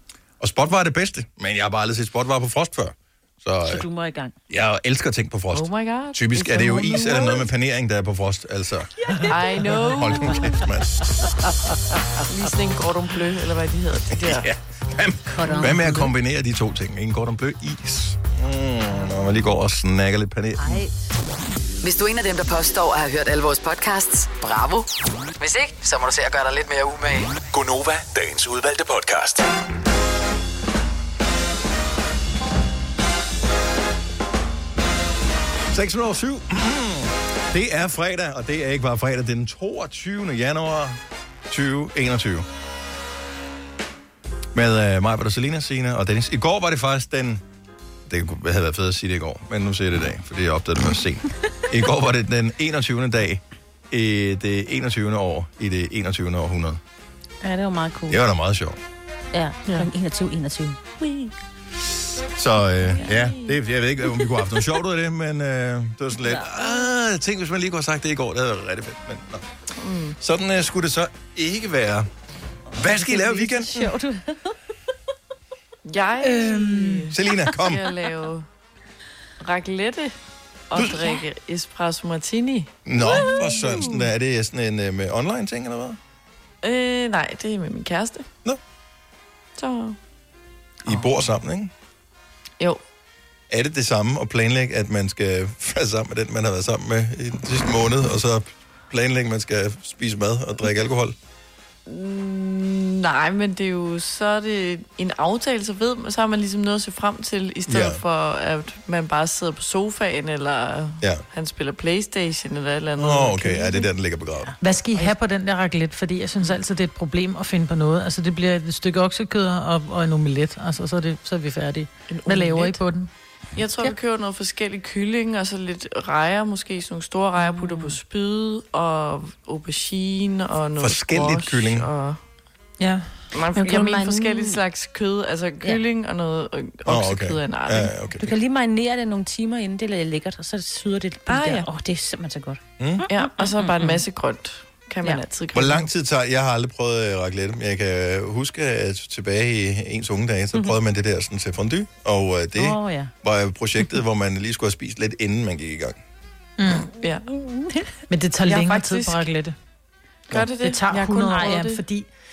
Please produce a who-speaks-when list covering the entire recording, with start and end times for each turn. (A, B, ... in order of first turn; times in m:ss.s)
0:00.4-0:03.8 A
0:03.6-0:04.3 B
0:04.5-0:08.9 A
0:05.5-0:07.5 C
0:09.1-0:09.3 B
0:09.3-0:10.5 C
0:09.7-0:11.3 A
0:12.3-0:14.5 C
0:14.1-0:20.8 A
0:15.3-0:16.1 B
0:20.6-0:20.9 B
0:21.8-0:24.9 D
0:25.4-0:27.4 D
0:27.5-0:29.5 E
0:35.7-0:42.4 A
0:44.5-0:47.4 A
0:48.1-0:56.8 A
0:57.4-0:58.2 B
0:58.1-0:58.8 A
0:59.3-1:01.3 B
1:02.3-1:09.5 A
1:02.9-1:03.5 C
1:06.2-1:06.9 B
1:09.8-1:10.2 C
1:10.2-1:12.1 A
1:12.7-1:13.9 A
1:12.8-1:14.5 B
1:15.8-1:18.5 C
1:16.2-1:17.1 F
1:17.1-1:17.8 A
1:19.4-1:20.1 C
1:20.7-1:24.0 C
1:20.7-1:21.1 A
1:22.8-1:26.0 A
1:26.6-1:28.3 C
1:29.6-1:30.0 C
1:30.8-1:31.7 A
1:33.5-1:41.2 A
1:41.9-1:53.8 C
1:47.7-1:48.0 A
1:53.0-1:54.5 A
1:54.6-2:03.1 F
2:02.1-2:02.8 C
2:03.6-2:12.2 C
2:10.8-2:11.9 A
2:12.8-2:13.1 F
2:13.3-2:17.9 C
2:13.6-2:14.6 B
2:16.8-2:18.3 A
2:18.2-2:24.0 B
2:21.3-2:21.6 C
2:22.8-2:23.0 A
2:23.1-2:25.9 C
2:25.5-2:36.0 A
2:32.5-2:33.1 B
2:36.6-2:36.9 F
2:37.0-2:37.3 C
2:37.3-2:37.9 B
2:38.1-2:39.5 F
2:38.4-2:39.2 C
2:40.3-2:41.8 C
2:40.6-2:42.1 F